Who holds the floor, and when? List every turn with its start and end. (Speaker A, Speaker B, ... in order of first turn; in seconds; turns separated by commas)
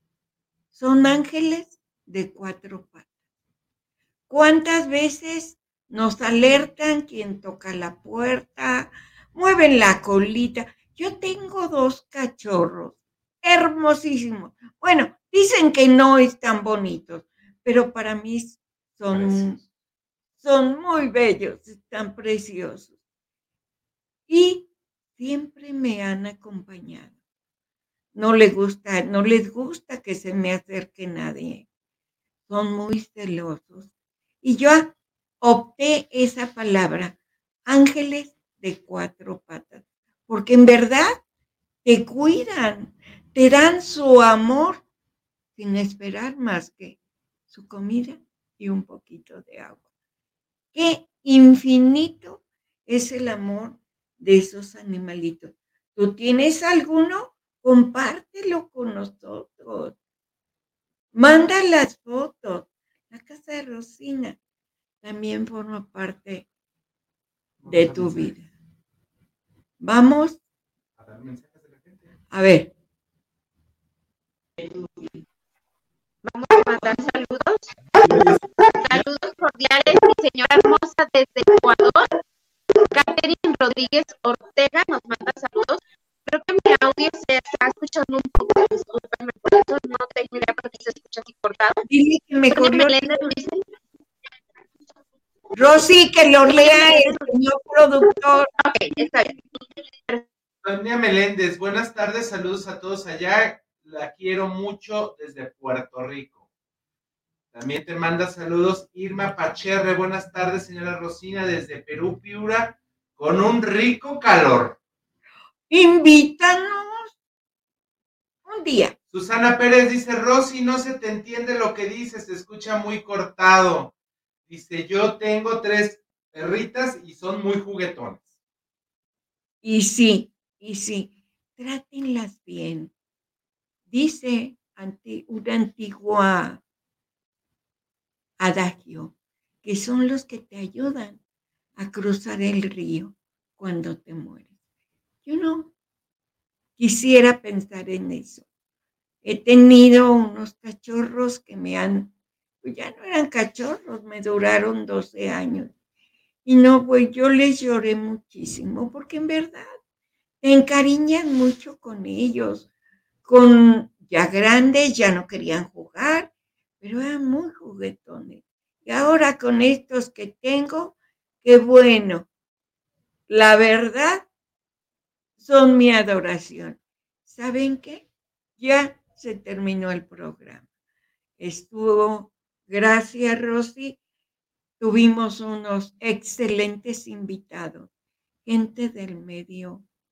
Speaker A: 0.7-3.0, Speaker A: 4.3-19.6, Speaker B: 19.1-19.5, Speaker A: 20.4-22.9, Speaker A: 24.3-27.1, Speaker A: 28.1-31.7, Speaker A: 32.5-33.9, Speaker A: 34.4-41.2, Speaker A: 41.8-44.8, Speaker A: 45.5-47.0, Speaker A: 47.5-49.8, Speaker A: 50.7-60.0, Speaker A: 61.1-64.4, Speaker A: 65.0-66.5, Speaker B: 67.6-68.3, Speaker A: 67.7-68.5, Speaker A: 69.8-70.4, Speaker B: 71.0-72.1, Speaker A: 72.3-72.7, Speaker C: 76.2-82.2, Speaker C: 82.8-91.8, Speaker A: 91.9-93.3, Speaker C: 92.5-93.7, Speaker A: 95.5-98.5, Speaker C: 96.5-97.3, Speaker C: 98.6-100.3, Speaker B: 100.6-106.4, Speaker B: 107.5-114.8, Speaker A: 115.7-117.1, Speaker A: 118.5-119.0, Speaker B: 119.1-123.9, Speaker B: 124.5-128.4, Speaker A: 129.6-132.9, Speaker A: 133.9-136.6, Speaker A: 138.4-139.1, Speaker A: 139.6-141.2, Speaker A: 141.8-144.5, Speaker A: 145.2-145.7, Speaker A: 146.8-148.4, Speaker A: 149.2-152.1, Speaker A: 152.6-155.7, Speaker A: 156.4-159.7, Speaker A: 160.4-162.7, Speaker A: 163.2-166.3, Speaker A: 166.8-172.3, Speaker A: 173.3-174.3, Speaker A: 175.4-178.1, Speaker A: 178.6-180.6, Speaker A: 181.4-184.0, Speaker A: 184.8-187.9, Speaker A: 188.4-189.8